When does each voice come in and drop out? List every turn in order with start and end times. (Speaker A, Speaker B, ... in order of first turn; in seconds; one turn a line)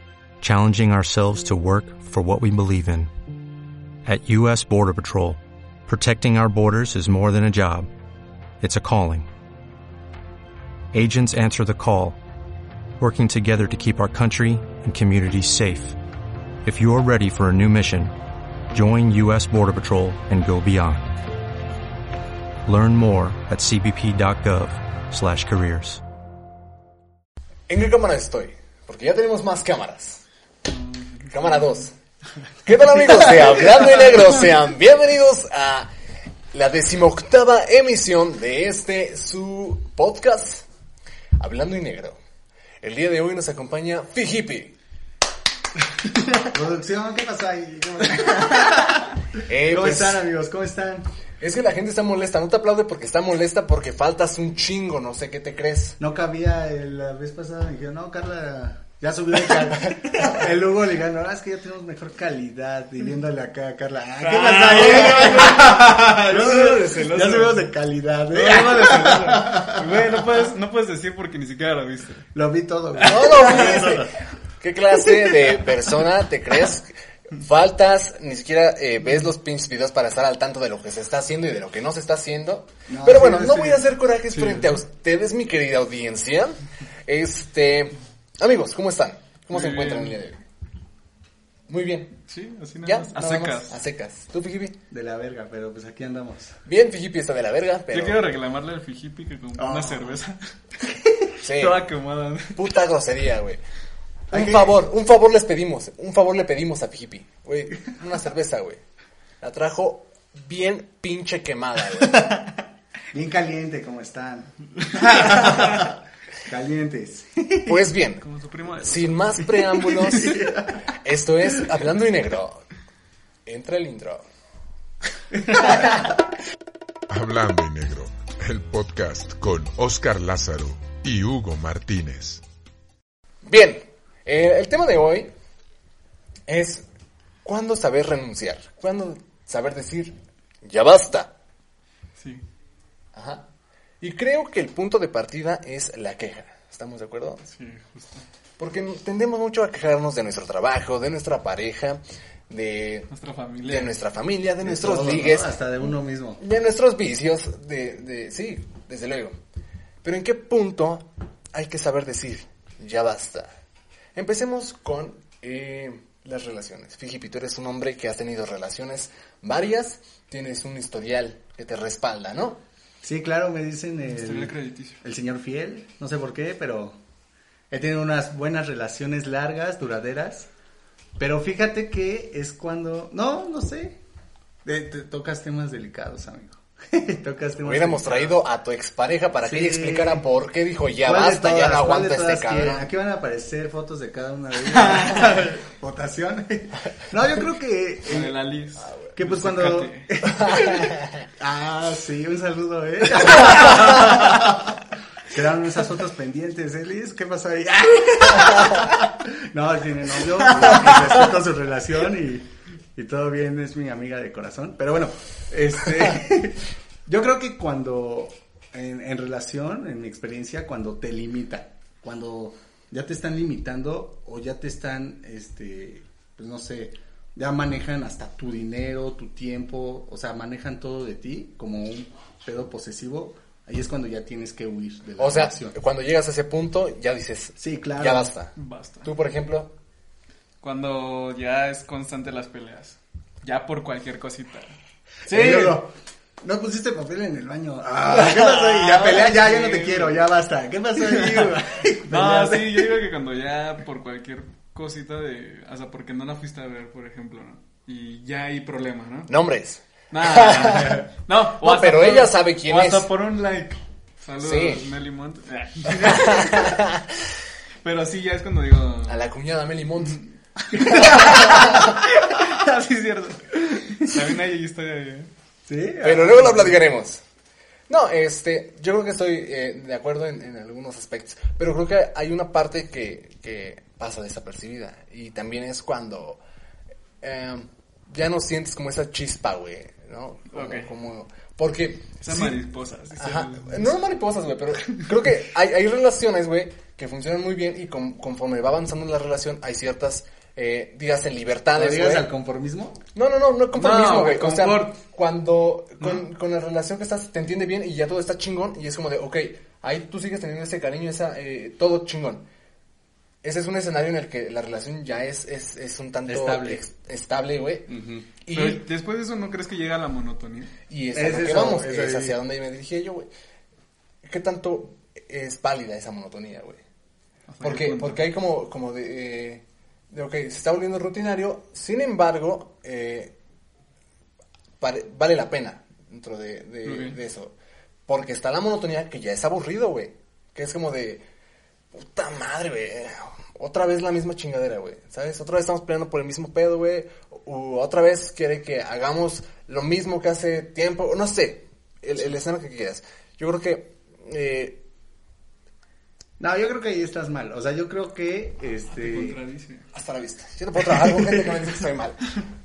Speaker A: 0.4-3.1
Speaker A: 4.0-7.9
Speaker A: 8.6-9.3
Speaker A: 10.9-12.2
Speaker A: 13.0-16.0
Speaker A: 16.6-18.1
Speaker A: 18.7-21.1
Speaker A: 22.6-26.0
Speaker B: 27.7-30.2
Speaker C: 30.7-31.8
Speaker B: 31.3-31.9
Speaker B: 32.6-35.9
Speaker B: 36.5-40.6
Speaker B: 41.4-42.2
Speaker B: 42.8-44.8
Speaker D: 46.4-51.0
Speaker B: 49.5-50.2
Speaker B: 51.4-56.0
Speaker D: 56.0-70.1
Speaker C: 64.2-67.7
Speaker C: 68.3-72.2
Speaker D: 72.3-74.1
Speaker B: 73.0-74.1
Speaker C: 73.0-73.5
Speaker B: 74.6-90.4
Speaker D: 82.9-83.9
Speaker C: 84.3-84.7
Speaker C: 89.5-90.2
Speaker B: 91.7-92.2
Speaker C: 92.3-93.8
Speaker B: 92.8-94.8
Speaker D: 94.9-96.6
Speaker B: 96.7-98.3
Speaker C: 97.9-100.5
Speaker D: 99.6-100.2
Speaker B: 101.4-101.8
Speaker C: 101.5-102.6
Speaker B: 102.5-103.6
Speaker D: 104.3-104.7
Speaker B: 104.3-108.8
Speaker B: 109.4-112.2
Speaker D: 112.2-112.4
Speaker D: 113.1-117.8
Speaker C: 115.0-115.8
Speaker B: 117.7-118.2
Speaker C: 118.2-120.3
Speaker B: 118.8-122.6
Speaker D: 120.0-120.8
Speaker B: 123.5-124.2
Speaker D: 125.5-126.1
Speaker E: 127.1-132.4
Speaker B: 133.4-135.3
Speaker B: 136.5-136.8
Speaker B: 137.4-141.3
Speaker C: 142.2-142.4
Speaker B: 143.1-143.4
Speaker B: 144.0-147.4
Speaker C: 147.4-148.2
Speaker B: 148.6-153.1
Speaker C: 153.1-154.0
Speaker B: 153.6-155.6
Speaker D: 154.6-156.4
Speaker B: 156.4-159.3
Speaker B: 160.0-163.5
Speaker B: 164.1-172.6
Speaker D: 173.0-177.0
Speaker C: 174.1-175.0
Speaker D: 177.7-180.5
Speaker D: 181.2-184.0
Speaker D: 184.6-188.4
Speaker B: 187.6-192.9
Speaker D: 189.4-190.2
Speaker D: 191.0-198.4
Speaker C: 194.7-195.4
Speaker C: 198.1-200.1
Speaker D: 199.1-204.8
Speaker B: 200.4-201.1
Speaker C: 203.4-204.0
Speaker D: 205.3-235.7
Speaker B: 235.2-239.7
Speaker D: 237.6-238.3
Speaker C: 238.6-239.1
Speaker C: 240.6-244.7
Speaker C: 245.2-245.8
Speaker D: 245.3-252.9
Speaker C: 248.1-250.2
Speaker C: 251.0-259.3
Speaker B: 259.3-263.1
Speaker C: 260.1-266.8
Speaker B: 264.4-264.8
Speaker B: 266.0-267.2
Speaker C: 267.8-269.2
Speaker B: 269.1-270.2
Speaker C: 270.0-275.3
Speaker B: 270.9-271.9
Speaker D: 271.0-271.6
Speaker D: 275.6-276.8
Speaker B: 276.0-277.2
Speaker B: 277.9-286.4
Speaker B: 287.2-292.6
Speaker C: 290.5-290.9
Speaker C: 292.2-293.9
Speaker B: 293.2-302.3
Speaker D: 301.7-303.0
Speaker B: 303.1-312.5
Speaker C: 303.7-305.0
Speaker B: 313.4-317.9
Speaker D: 316.3-316.8
Speaker D: 317.9-318.3
Speaker B: 318.4-318.9
Speaker C: 318.5-320.7
Speaker B: 320.9-323.3
Speaker D: 321.1-322.4
Speaker B: 324.2-326.8
Speaker C: 327.5-328.3
Speaker B: 327.6-333.3
Speaker B: 334.8-337.5
Speaker C: 336.8-337.2
Speaker B: 338.1-341.2
Speaker B: 341.9-354.8
Speaker D: 356.4-359.4
Speaker C: 358.9-359.9
Speaker B: 359.9-362.2
Speaker D: 360.9-361.7